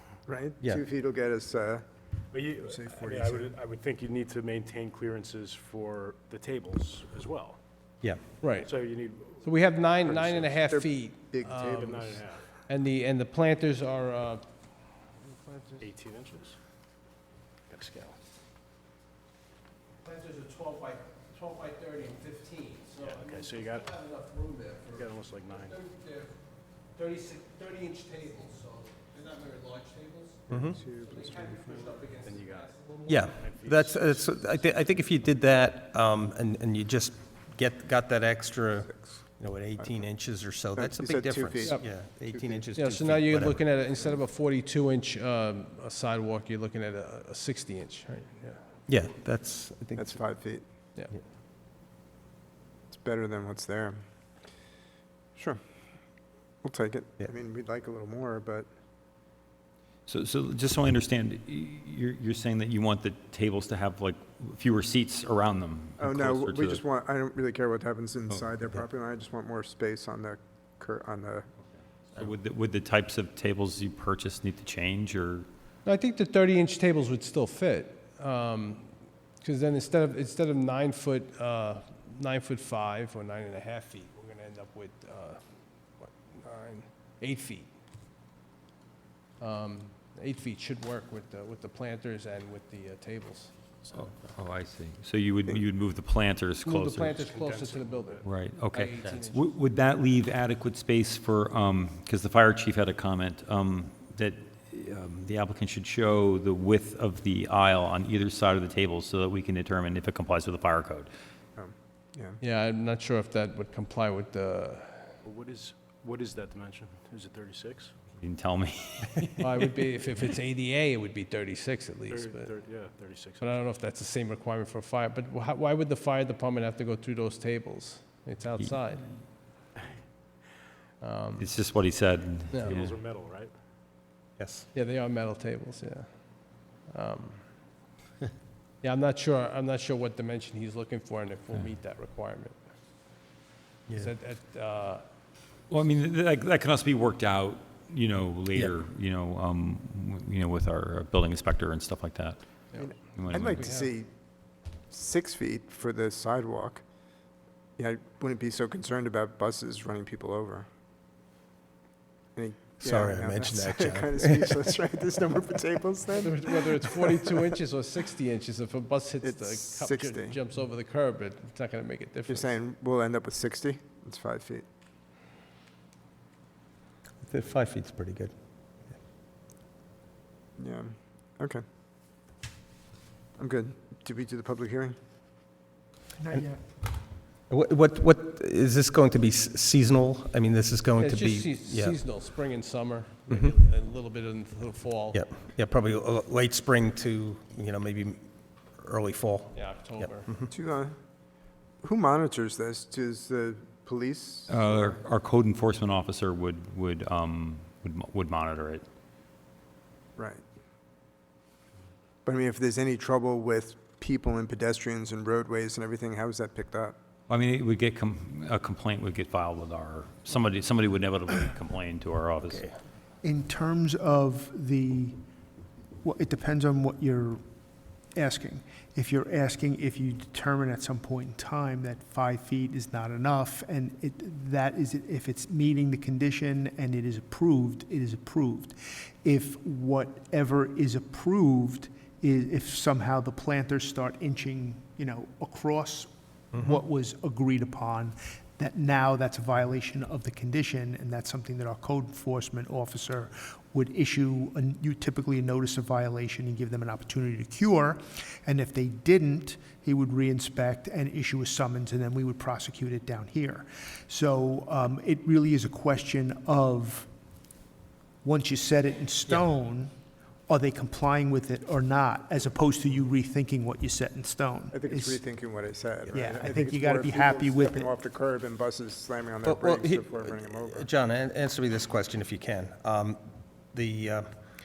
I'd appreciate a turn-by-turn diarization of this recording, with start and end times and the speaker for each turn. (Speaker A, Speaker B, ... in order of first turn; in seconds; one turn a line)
Speaker A: 0.2-1.8
Speaker B: 2.3-7.6
Speaker A: 2.6-3.5
Speaker C: 8.4-8.7
Speaker B: 8.6-9.5
Speaker C: 9.4-11.9
Speaker B: 10.0-10.6
Speaker A: 10.6-12.2
Speaker B: 11.8-12.5
Speaker C: 12.6-15.8
Speaker B: 15.8-16.6
Speaker B: 17.7-18.2
Speaker C: 20.0-26.4
Speaker B: 23.0-23.9
Speaker B: 24.9-25.8
Speaker C: 26.9-33.4
Speaker D: 30.5-30.8
Speaker A: 30.5-32.1
Speaker B: 32.2-32.7
Speaker D: 33.0-43.6
Speaker B: 33.3-34.3
Speaker A: 39.8-40.0
Speaker A: 40.7-42.7
Speaker C: 41.6-41.9
Speaker C: 42.7-48.6
Speaker D: 48.9-50.2
Speaker A: 50.0-50.6
Speaker C: 50.9-51.2
Speaker A: 52.9-54.0
Speaker A: 56.6-58.7
Speaker E: 60.1-66.8
Speaker A: 66.0-71.5
Speaker E: 72.1-75.5
Speaker C: 75.8-78.9
Speaker C: 79.4-85.4
Speaker C: 86.0-87.7
Speaker C: 89.4-94.0
Speaker E: 93.9-97.2
Speaker C: 96.6-99.5
Speaker B: 97.2-98.3
Speaker E: 98.2-111.1
Speaker A: 111.5-112.4
Speaker C: 112.4-115.2
Speaker B: 115.2-117.9
Speaker E: 118.2-119.3
Speaker C: 119.2-122.5
Speaker B: 122.1-123.5
Speaker C: 123.4-129.2
Speaker C: 131.0-131.5
Speaker E: 131.4-133.0
Speaker C: 132.5-132.8
Speaker B: 132.6-133.5
Speaker D: 134.4-134.7
Speaker C: 134.7-137.5
Speaker C: 138.8-142.7
Speaker D: 143.9-144.1
Speaker C: 143.9-145.0
Speaker E: 145.7-152.4
Speaker C: 152.7-153.9
Speaker A: 152.8-154.1
Speaker E: 153.1-153.7
Speaker A: 154.9-156.8
Speaker A: 157.8-160.7
Speaker A: 162.3-167.4
Speaker D: 162.8-164.6
Speaker C: 166.1-172.5
Speaker A: 169.2-170.4
Speaker A: 172.3-174.6
Speaker D: 177.2-178.3
Speaker A: 180.6-181.6
Speaker A: 183.4-185.0
Speaker F: 186.2-186.6
Speaker D: 187.5-192.0
Speaker C: 191.0-195.2
Speaker D: 193.3-193.5
Speaker D: 195.1-198.2
Speaker D: 198.7-200.5
Speaker C: 199.5-200.3
Speaker A: 200.5-200.9
Speaker A: 201.8-204.9
Speaker E: 204.5-208.8
Speaker A: 210.2-210.4
Speaker A: 212.2-216.9
Speaker E: 217.3-222.7
Speaker F: 223.2-225.2
Speaker F: 226.0-227.4
Speaker F: 228.1-267.1
Speaker F: 268.2-269.9
Speaker F: 270.5-275.2
Speaker A: 274.7-280.9
Speaker F: 276.1-277.9
Speaker D: 279.4-284.3